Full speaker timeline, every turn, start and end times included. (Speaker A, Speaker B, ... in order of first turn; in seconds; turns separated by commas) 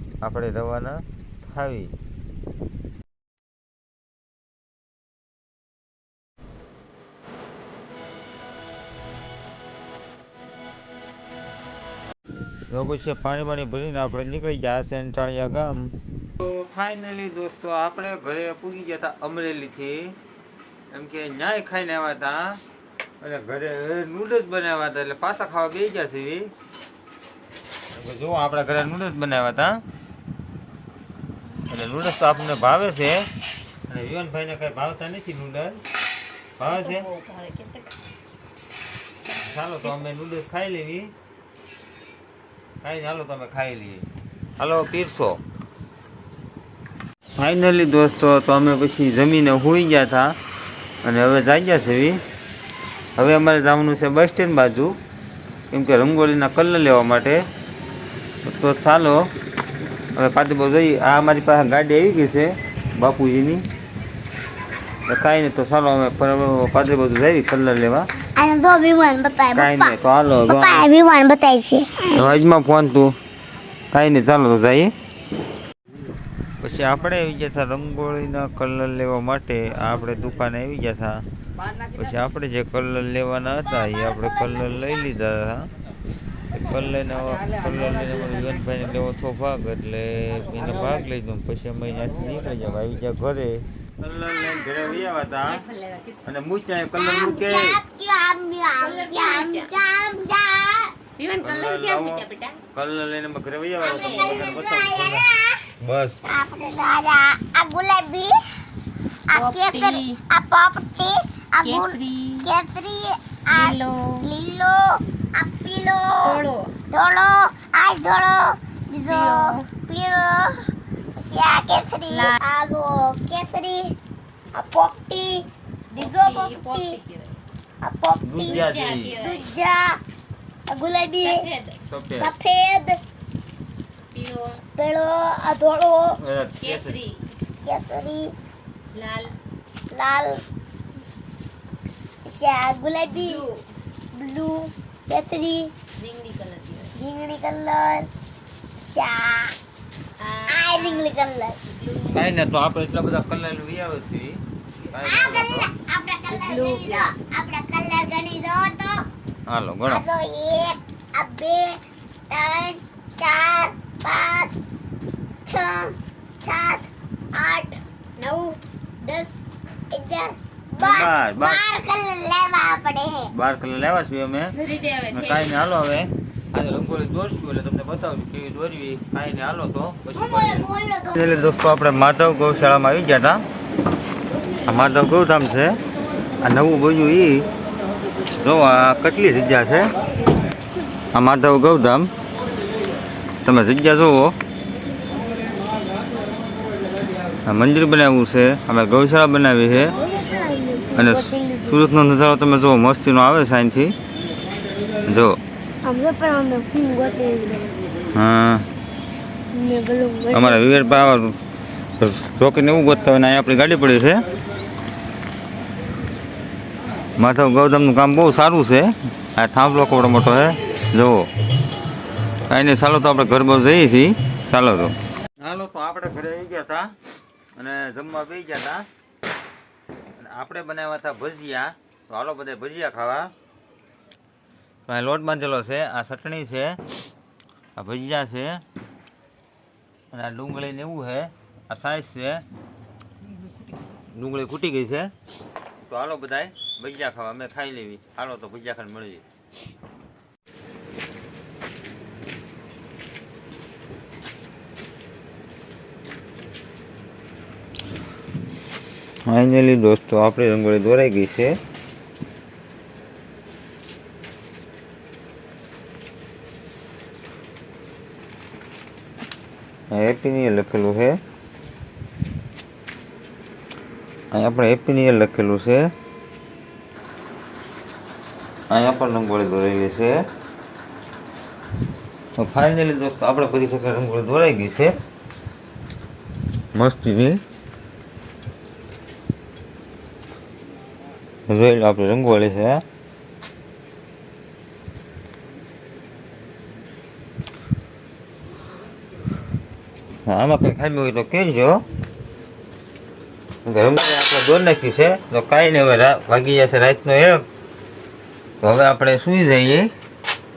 Speaker A: 0.2-1.9, Speaker A: 12.7-20.1, Speaker A: 20.9-22.6, Speaker A: 23.2-26.5, Speaker A: 27.9-29.8, Speaker A: 31.7-33.3, Speaker A: 33.9-35.8, Speaker A: 36.6-37.1, Speaker B: 36.6-38.0, Speaker A: 39.3-41.1, Speaker A: 42.8-44.0, Speaker A: 44.6-45.4, Speaker A: 47.4-50.3, Speaker A: 51.0-52.2, Speaker A: 53.2-55.0, Speaker A: 55.7-57.4, Speaker A: 58.4-59.3, Speaker A: 60.2-63.6, Speaker A: 65.1-68.1, Speaker C: 68.3-69.9, Speaker A: 69.5-70.9, Speaker C: 70.5-72.0, Speaker A: 72.1-73.1, Speaker A: 73.9-74.9, Speaker A: 76.6-81.2, Speaker A: 81.9-85.7, Speaker A: 86.5-95.6, Speaker B: 95.4-96.2, Speaker A: 96.2-97.8, Speaker C: 96.9-100.9, Speaker B: 98.8-99.8, Speaker B: 101.2-102.6, Speaker A: 101.4-105.3, Speaker C: 103.8-105.7, Speaker B: 103.9-104.4, Speaker A: 105.8-106.2, Speaker C: 106.2-108.4, Speaker C: 109.3-123.9, Speaker B: 109.3-110.2, Speaker B: 111.6-112.5, Speaker B: 113.5-114.3, Speaker B: 116.2-116.7, Speaker B: 119.1-119.6, Speaker B: 122.1-122.4, Speaker C: 124.5-127.0, Speaker B: 125.9-127.4, Speaker C: 127.8-130.0, Speaker A: 128.2-129.2, Speaker B: 128.4-129.5, Speaker C: 130.7-131.5, Speaker B: 131.2-131.8, Speaker A: 131.9-132.3, Speaker C: 132.2-133.0, Speaker B: 134.1-134.6, Speaker C: 134.7-136.2, Speaker A: 136.2-137.0, Speaker B: 136.6-137.2, Speaker C: 137.6-138.3, Speaker B: 138.9-139.3, Speaker C: 139.9-140.4, Speaker C: 142.2-143.4, Speaker B: 143.1-143.6, Speaker C: 144.1-145.7, Speaker B: 146.0-146.9, Speaker C: 146.9-148.1, Speaker C: 148.8-149.6, Speaker B: 150.2-151.1, Speaker C: 150.5-151.6, Speaker B: 151.7-152.2, Speaker A: 152.1-154.4, Speaker A: 154.9-155.7, Speaker C: 154.9-159.0, Speaker B: 156.3-157.1, Speaker A: 159.5-160.0, Speaker C: 159.9-161.8, Speaker C: 162.3-164.5, Speaker C: 165.5-169.3, Speaker C: 169.9-173.3, Speaker A: 170.8-171.6, Speaker A: 173.3-174.6, Speaker B: 174.6-175.6, Speaker A: 175.1-183.4, Speaker C: 180.2-181.2, Speaker A: 184.7-185.8, Speaker A: 186.4-187.4, Speaker A: 188.4-189.9, Speaker A: 191.1-192.1, Speaker A: 193.4-194.3, Speaker A: 197.5-199.9, Speaker C: 199.9-201.9, Speaker A: 201.0-203.9, Speaker A: 205.1-205.4, Speaker C: 205.8-207.6, Speaker A: 208.1-208.6, Speaker C: 209.5-211.0, Speaker A: 210.3-211.3, Speaker A: 212.0-214.2, Speaker A: 217.2-221.3, Speaker A: 222.5-226.9, Speaker A: 227.5-228.8, Speaker A: 230.1-233.3, Speaker A: 234.9-236.8, Speaker A: 237.8-238.6, Speaker A: 240.1-242.4, Speaker A: 244.1-245.1, Speaker A: 245.8-249.2, Speaker A: 259.2-261.6, Speaker A: 269.9-271.1, Speaker A: 274.3-275.9, Speaker A: 278.7-280.2, Speaker A: 282.4-285.0, Speaker A: 286.7-287.4, Speaker A: 291.5-292.8, Speaker A: 300.2-301.8, Speaker A: 303.6-307.4, Speaker A: 308.6-309.9